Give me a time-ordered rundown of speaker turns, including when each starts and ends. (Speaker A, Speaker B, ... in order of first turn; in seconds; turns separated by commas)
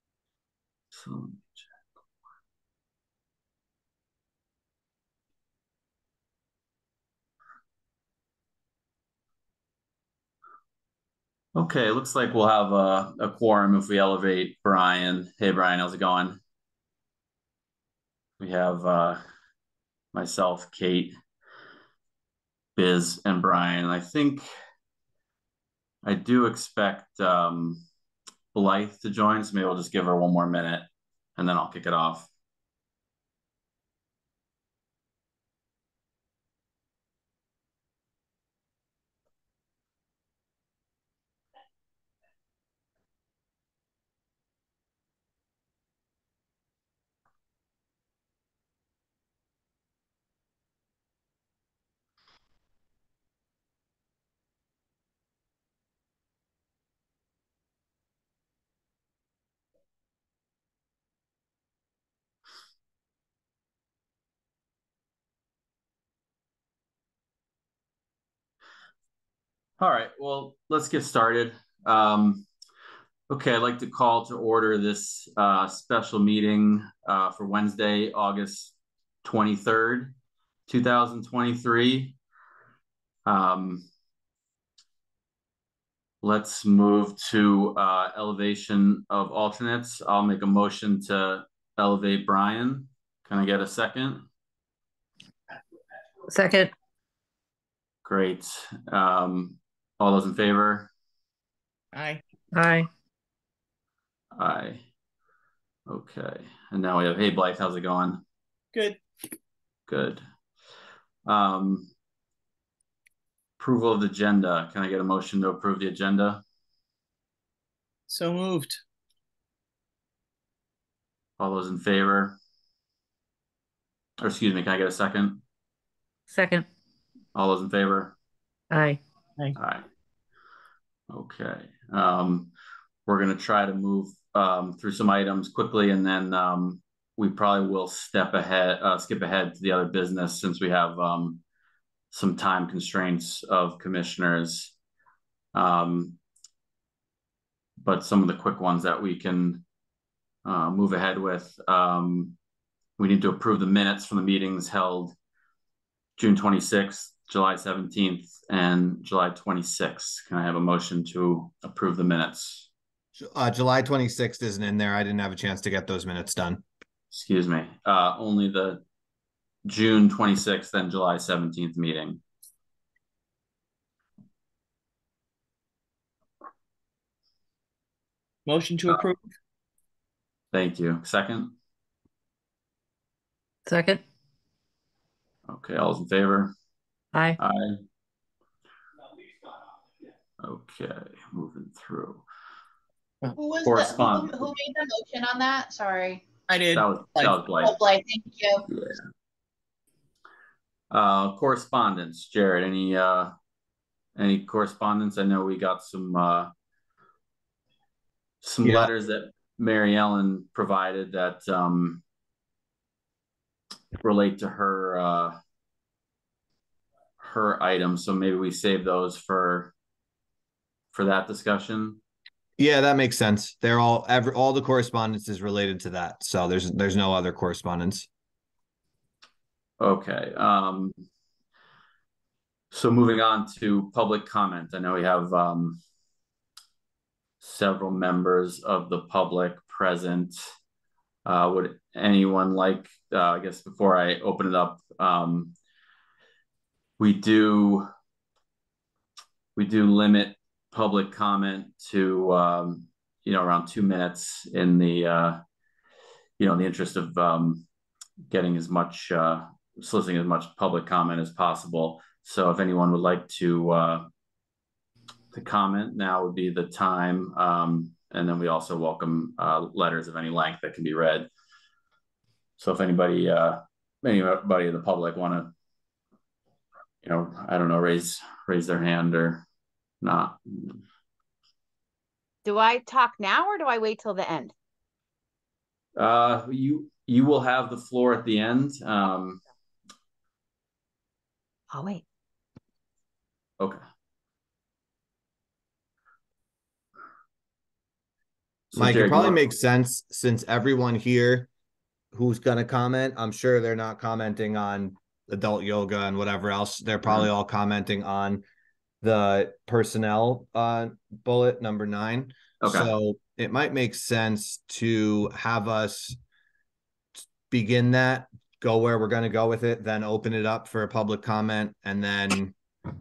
Speaker A: 0.9-1.6, Speaker A: 11.5-16.4, Speaker A: 18.4-19.2, Speaker A: 20.1-21.1, Speaker A: 22.8-24.4, Speaker A: 26.0-27.8, Speaker A: 28.5-32.3, Speaker A: 69.8-72.5, Speaker A: 73.3-80.1, Speaker A: 80.7-82.2, Speaker A: 83.2-83.9, Speaker A: 86.2-94.2, Speaker B: 96.3-96.7, Speaker A: 98.0-100.9, Speaker C: 101.9-102.2, Speaker B: 102.5-102.9, Speaker A: 104.3-104.8, Speaker A: 105.9-108.2, Speaker A: 109.9-110.2, Speaker A: 111.2-111.9, Speaker A: 113.6-116.4, Speaker C: 118.1-118.8, Speaker A: 121.4-122.4, Speaker A: 124.2-125.4, Speaker B: 126.3-126.7, Speaker A: 127.3-128.1, Speaker B: 128.7-129.0, Speaker A: 129.6-129.8, Speaker A: 131.1-132.5, Speaker A: 133.1-141.4, Speaker A: 142.1-144.7, Speaker A: 145.5-146.2, Speaker A: 147.8-149.6, Speaker A: 150.4-152.3, Speaker A: 153.0-155.1, Speaker A: 156.2-162.7, Speaker D: 163.2-166.6, Speaker A: 167.1-168.8, Speaker A: 169.6-172.2, Speaker C: 178.4-179.2, Speaker A: 180.5-181.5, Speaker B: 183.7-184.0, Speaker A: 185.5-186.5, Speaker B: 187.1-187.4, Speaker A: 187.4-187.8, Speaker A: 190.4-192.2, Speaker E: 193.3-196.4, Speaker A: 193.6-194.3, Speaker C: 196.5-197.4, Speaker A: 196.7-197.7, Speaker E: 197.5-198.7, Speaker A: 200.9-203.3, Speaker A: 204.2-206.5, Speaker A: 208.4-212.0, Speaker D: 208.6-208.9, Speaker A: 214.0-215.4, Speaker A: 217.2-219.7, Speaker A: 220.9-222.0, Speaker D: 222.6-228.1, Speaker A: 229.8-231.0, Speaker A: 232.7-235.8, Speaker A: 237.4-240.4, Speaker A: 241.2-245.5, Speaker A: 247.0-247.9, Speaker A: 249.6-255.4, Speaker A: 256.4-257.6, Speaker A: 258.3-264.1, Speaker A: 265.3-271.3, Speaker A: 272.6-275.5, Speaker A: 277.0-279.4, Speaker A: 280.0-280.8, Speaker F: 282.4-284.5, Speaker A: 285.9-289.4, Speaker F: 291.7-292.0, Speaker A: 298.7-299.4, Speaker D: 298.7-301.5, Speaker D: 302.1-308.4, Speaker D: 309.0-316.2, Speaker A: 312.6-312.9, Speaker D: 317.5-322.5